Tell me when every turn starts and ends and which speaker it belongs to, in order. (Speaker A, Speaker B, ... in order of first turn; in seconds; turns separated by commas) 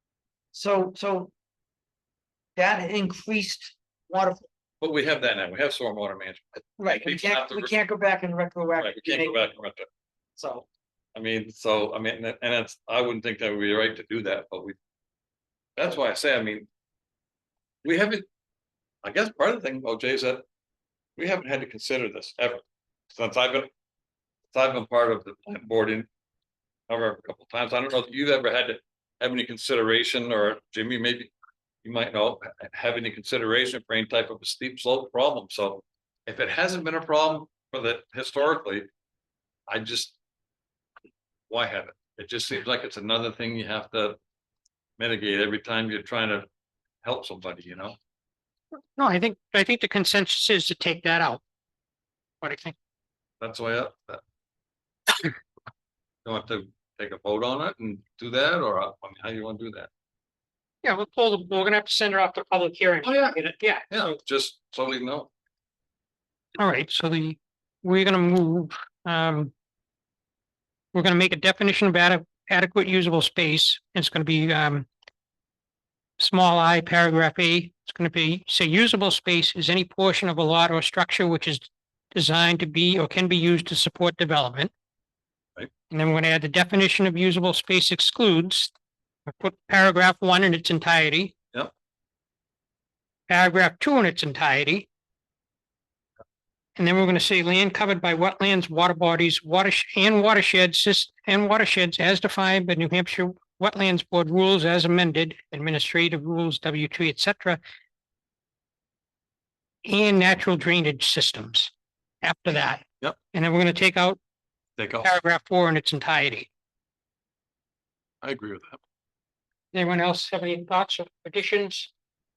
Speaker A: 0.5-1.3, Speaker A: 2.6-4.5, Speaker B: 4.8-7.7, Speaker A: 6.8-9.4, Speaker B: 8.8-9.9, Speaker A: 10.4-10.7, Speaker B: 11.2-14.8, Speaker B: 15.8-16.7, Speaker B: 17.8-18.3, Speaker B: 19.0-20.4, Speaker B: 21.2-23.7, Speaker B: 24.5-26.1, Speaker B: 26.9-38.9, Speaker B: 39.7-40.1, Speaker B: 41.5-44.2, Speaker B: 45.0-46.5, Speaker B: 47.0-48.0, Speaker C: 49.0-51.4, Speaker C: 52.4-52.8, Speaker B: 53.4-54.2, Speaker B: 56.2-59.9, Speaker C: 60.8-64.2, Speaker B: 63.0-63.4, Speaker B: 63.9-65.3, Speaker C: 66.6-69.5, Speaker C: 70.9-74.9, Speaker C: 76.2-84.7, Speaker C: 85.9-88.7, Speaker C: 89.3-91.3, Speaker C: 93.3-94.9, Speaker C: 96.8-107.6, Speaker C: 109.8-114.2, Speaker B: 114.8-115.1, Speaker C: 115.0-116.5, Speaker B: 118.2-118.8, Speaker C: 119.7-121.9